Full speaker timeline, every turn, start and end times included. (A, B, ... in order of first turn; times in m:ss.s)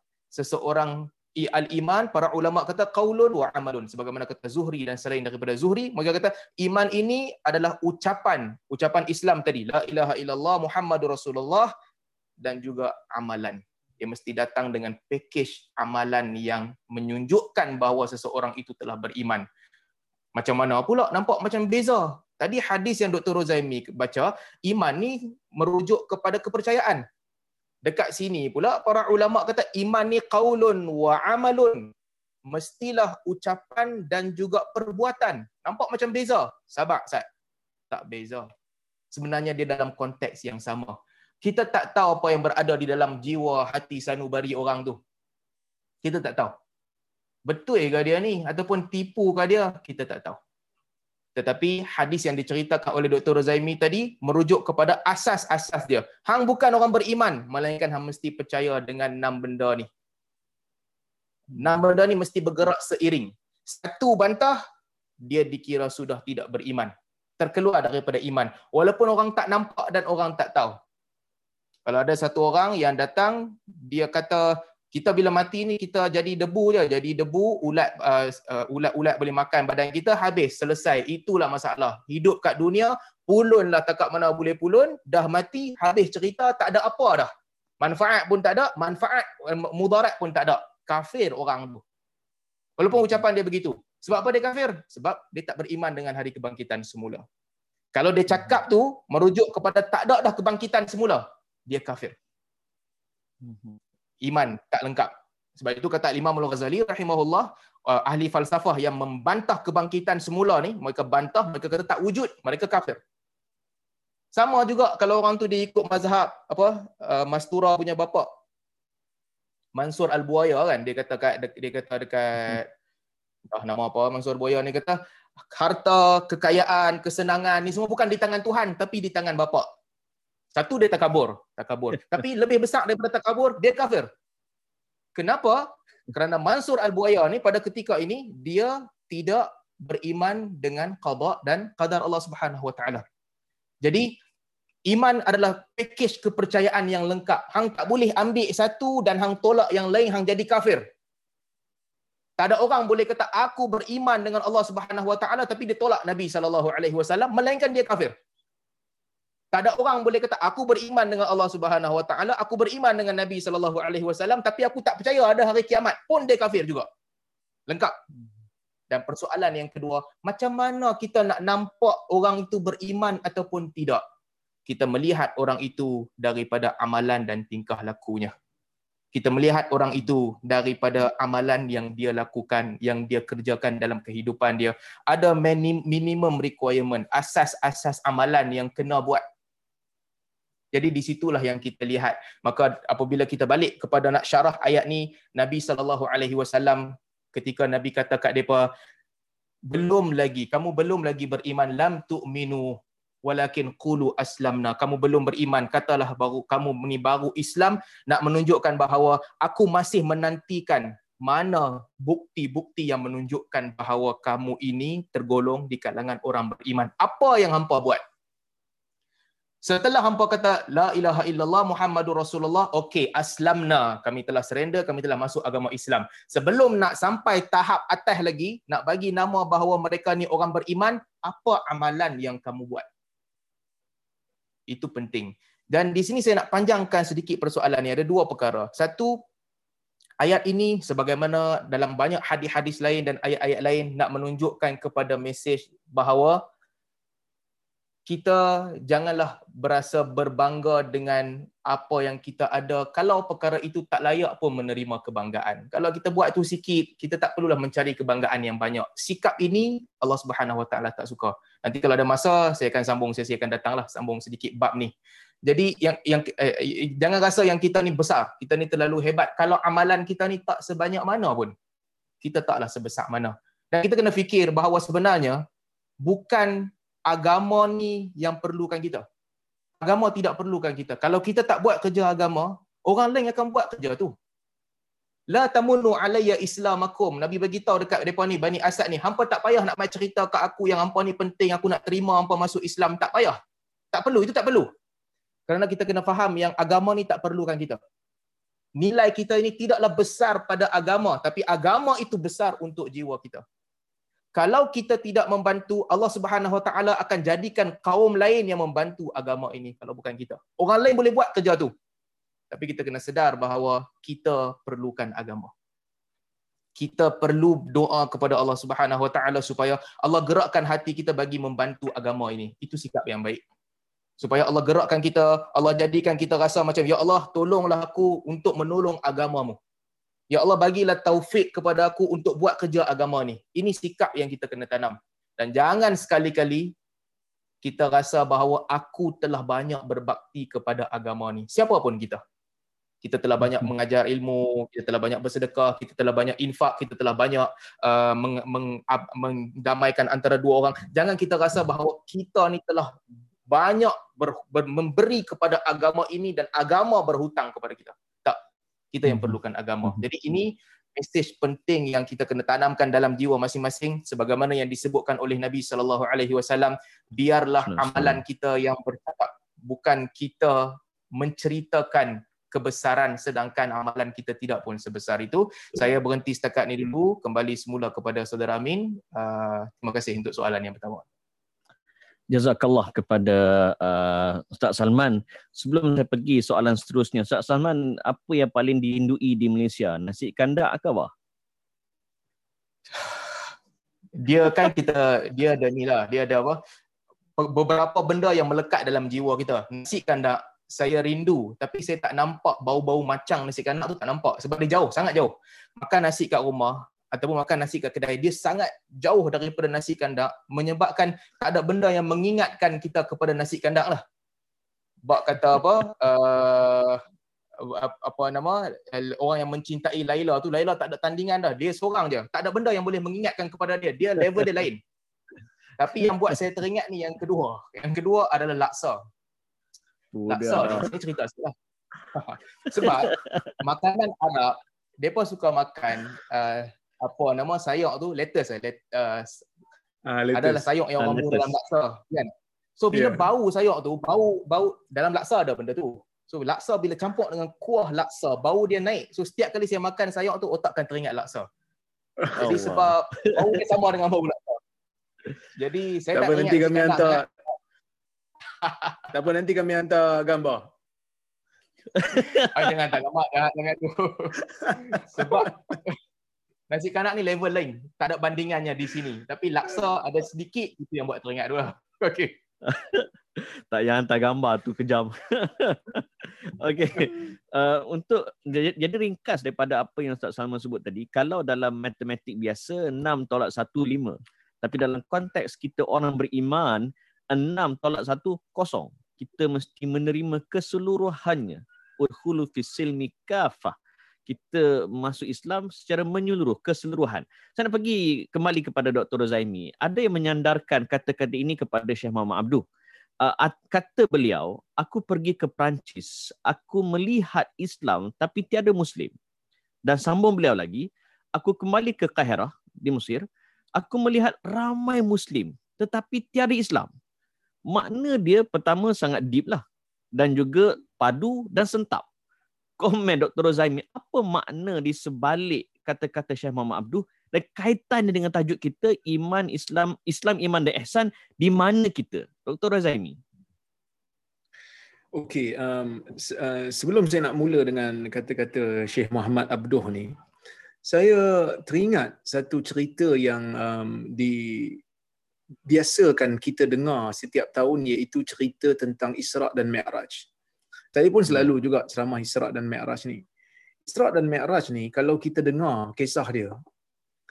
0:00.3-0:11.7 A
0:12.4-0:19.4 A
0:20.4-0:27.0 A
0:27.8-0:31.9 A
0:32.5-0:37.2 A
0:37.9-0:38.5 A
0:39.1-0:45.0 A
0:46.0-0:46.5 A
0:47.5-0:50.4 A
0:51.4-0:59.9 A
1:01.5-1:04.6 A
1:05.2-1:10.8 A
1:11.9-1:27.3 A
1:27.8-1:31.8 A
1:32.8-1:37.2 A
1:37.9-1:42.2 A
1:43.4-1:43.8 B
1:44.2-1:53.0 A
1:54.3-1:58.3 A
1:59.8-2:02.7 A
2:03.5-2:05.0 A
2:05.5-2:09.7 A
2:10.6-2:14.1 A
2:15.2-2:23.0 A
2:23.8-2:24.1 A
2:24.9-2:30.8 A
2:32.4-2:38.1 A
2:39.5-2:46.9 A
2:47.7-2:48.0 A
2:48.9-2:54.0 A
2:54.7-2:58.3 A
2:59.1-3:09.2 A
3:10.7-3:18.7 A
3:19.7-3:38.0 A
3:39.6-3:52.8 A
3:54.7-3:59.2 A
4:00.2-4:06.4 A
4:08.1-4:24.9 A
4:25.4-4:31.5 A
4:32.2-4:35.4 A
4:36.0-4:39.0 A
4:39.8-4:44.1 A
4:45.3-4:53.4 A
4:53.9-4:54.7 A
4:55.5-4:57.8 A
4:58.8-5:03.4 A
5:04.4-5:11.7 A
5:12.5-5:15.5 A
5:16.8-5:23.4 A
5:24.2-5:29.6 A
5:30.3-5:36.7 A
5:37.6-5:42.2 A
5:43.0-5:58.4 A
5:58.9-6:21.0 A
5:59.1-5:59.4 B
6:07.7-6:08.2 B
6:22.3-6:31.1 B
6:34.2-6:36.6 A
6:37.4-6:54.0 A
6:55.1-6:57.0 A
6:57.6-7:04.8 A
7:05.8-7:09.0 A
7:10.1-7:10.9 B
7:10.3-7:11.5 A
7:12.1-7:19.4 A
7:20.1-7:20.6 C
7:20.3-7:31.5 A
7:21.0-7:21.5 B
7:22.9-7:23.2 C
7:32.4-7:33.4 B
7:32.4-7:34.6 A
7:35.6-7:37.2 A
7:36.1-7:37.2 C
7:38.6-7:38.9 A
7:39.1-7:40.7 C
7:42.0-7:42.5 B
7:42.5-7:46.0 A
7:46.7-7:52.4 A
7:52.7-8:13.8 B
8:14.3-8:22.6 B
8:23.2-8:29.1 B
8:29.9-8:30.9 B
8:31.4-8:33.2 B
8:33.8-8:36.9 B
8:37.7-8:39.6 B
8:40.2-8:42.0 B
8:42.8-8:53.2 B
8:55.1-9:00.2 C
9:00.8-9:04.8 C
9:05.7-9:10.3 C
9:10.9-9:13.2 C
9:13.9-9:16.6 C